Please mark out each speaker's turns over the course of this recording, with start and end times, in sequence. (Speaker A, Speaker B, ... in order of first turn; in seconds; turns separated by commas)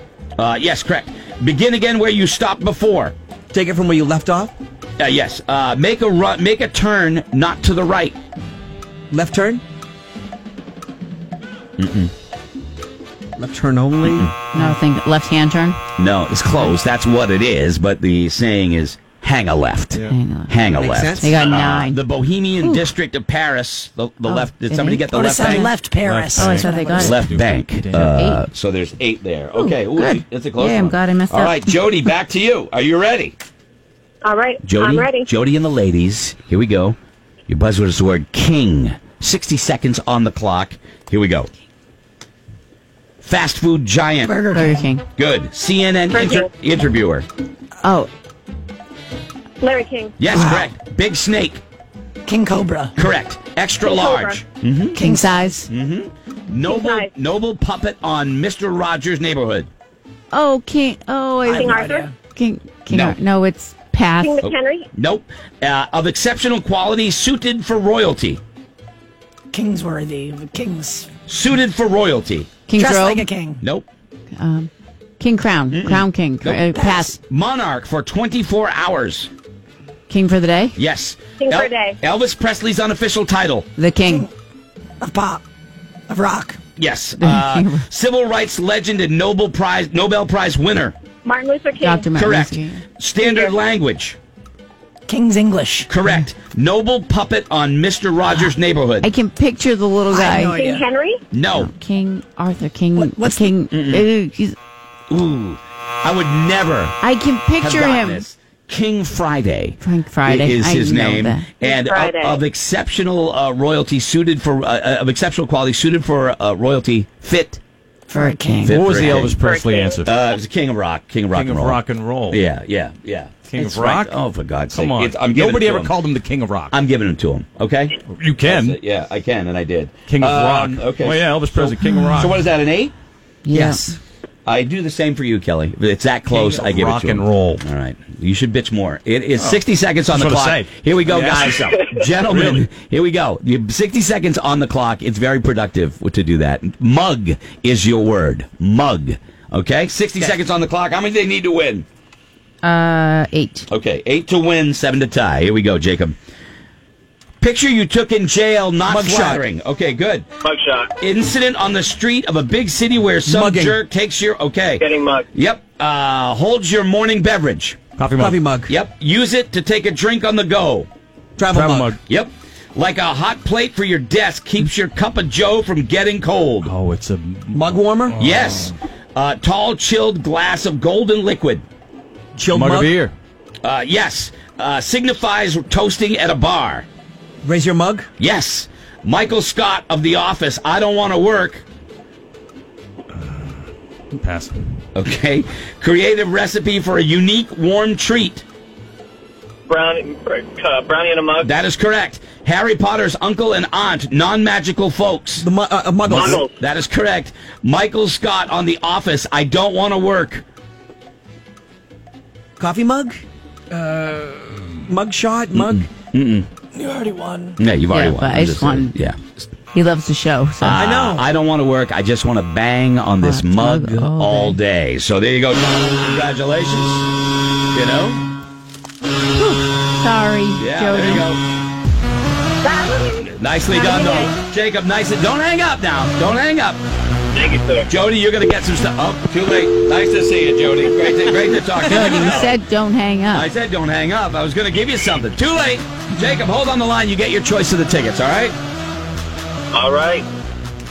Speaker A: 0.4-3.1, Speaker B: 3.5-4.5, Speaker A: 5.0-8.2, Speaker B: 9.1-9.6, Speaker A: 11.8-12.1, Speaker B: 13.4-14.3, Speaker C: 14.5-15.8, Speaker A: 16.0-25.7, Speaker C: 20.1-20.5, Speaker B: 20.7-21.3, Speaker C: 21.2-22.0, Speaker C: 24.2-25.7, Speaker D: 25.1-27.2, Speaker E: 26.0-28.2, Speaker C: 26.4-27.2, Speaker A: 26.9-33.3, Speaker C: 28.1-28.4, Speaker C: 29.5-31.8, Speaker F: 34.2-35.3, Speaker A: 34.6-37.0, Speaker A: 37.5-41.5, Speaker A: 43.2-44.4, Speaker D: 44.2-44.9, Speaker C: 44.5-45.0, Speaker A: 45.1-47.3, Speaker F: 46.1-46.5, Speaker C: 47.8-48.1, Speaker F: 49.6-50.1, Speaker A: 50.2-51.6, Speaker D: 50.3-50.7, Speaker D: 52.2-52.9, Speaker A: 53.0-55.0, Speaker F: 53.8-54.4, Speaker C: 54.9-55.7, Speaker D: 55.0-55.6, Speaker A: 55.7-59.7, Speaker F: 56.6-57.1, Speaker C: 60.3-61.7, Speaker D: 61.4-62.1, Speaker F: 61.5-62.1, Speaker C: 62.3-64.4, Speaker A: 62.9-63.2, Speaker F: 64.2-64.9, Speaker A: 64.4-68.4, Speaker D: 69.5-71.1, Speaker A: 71.3-72.5, Speaker C: 72.7-73.3, Speaker D: 72.8-73.6, Speaker A: 73.6-73.9, Speaker C: 74.3-77.2, Speaker A: 75.7-79.3, Speaker C: 80.1-80.8, Speaker A: 80.8-83.7, Speaker F: 81.4-82.0, Speaker C: 83.8-84.3, Speaker D: 85.0-85.4, Speaker D: 86.1-86.6, Speaker A: 86.8-90.9, Speaker C: 87.2-87.8, Speaker F: 91.2-92.1, Speaker C: 91.8-92.8, Speaker A: 92.1-94.2, Speaker F: 93.2-93.5, Speaker D: 95.1-95.9, Speaker A: 95.9-99.1, Speaker C: 99.0-100.6, Speaker D: 100.1-100.8, Speaker F: 100.5-101.2, Speaker A: 101.3-101.7, Speaker C: 101.5-104.5, Speaker D: 103.0-103.5, Speaker A: 103.7-104.1, Speaker A: 105.1-107.0, Speaker C: 107.0-108.2, Speaker A: 107.6-117.6, Speaker C: 109.8-111.5, Speaker F: 111.6-112.4, Speaker D: 118.1-118.8, Speaker C: 118.1-118.7, Speaker A: 118.6-119.4, Speaker E: 118.7-120.1, Speaker F: 119.4-119.9, Speaker A: 120.0-126.0, Speaker E: 121.3-122.4, Speaker E: 123.5-124.2, Speaker E: 124.7-126.7, Speaker A: 126.7-132.9, Speaker E: 128.1-128.8, Speaker E: 130.1-132.4, Speaker C: 133.4-133.8, Speaker B: 133.5-133.9, Speaker A: 134.4-151.8, Speaker E: 136.3-137.6, Speaker E: 140.1-142.6, Speaker C: 152.6-153.7, Speaker A: 153.7-156.2, Speaker A: 157.4-160.2, Speaker B: 158.8-159.4, Speaker G: 160.4-160.9, Speaker A: 161.0-167.8, Speaker B: 163.3-163.8, Speaker G: 164.8-165.2, Speaker E: 168.0-168.4, Speaker B: 168.2-168.7, Speaker A: 168.7-170.9, Speaker B: 171.4-171.9, Speaker E: 171.5-172.0, Speaker A: 172.1-176.7, Speaker E: 176.6-178.7, Speaker B: 177.5-178.2, Speaker A: 178.2-181.6, Speaker B: 182.3-182.9, Speaker E: 182.5-183.1, Speaker A: 183.6-186.9, Speaker B: 187.4-188.1, Speaker A: 188.2-191.6, Speaker E: 194.2-194.6, Speaker A: 194.9-198.4, Speaker G: 199.7-201.5, Speaker A: 201.4-205.5, Speaker B: 205.4-206.4, Speaker A: 206.0-210.4, Speaker G: 206.1-206.5, Speaker B: 212.6-213.2, Speaker B: 213.9-214.2, Speaker B: 214.8-215.8, Speaker A: 215.6-216.5, Speaker D: 216.7-217.6, Speaker A: 217.6-219.2, Speaker C: 217.9-218.9, Speaker C: 219.7-220.8, Speaker A: 220.6-227.1, Speaker B: 220.8-221.2, Speaker C: 223.2-224.6, Speaker A: 227.7-228.2, Speaker C: 229.4-231.3, Speaker A: 230.6-231.4, Speaker F: 232.6-233.3, Speaker A: 233.4-236.8, Speaker C: 233.7-234.0, Speaker F: 233.9-234.3, Speaker G: 237.4-237.9, Speaker A: 237.9-242.6, Speaker C: 241.9-243.5, Speaker A: 243.3-248.5, Speaker G: 249.7-250.3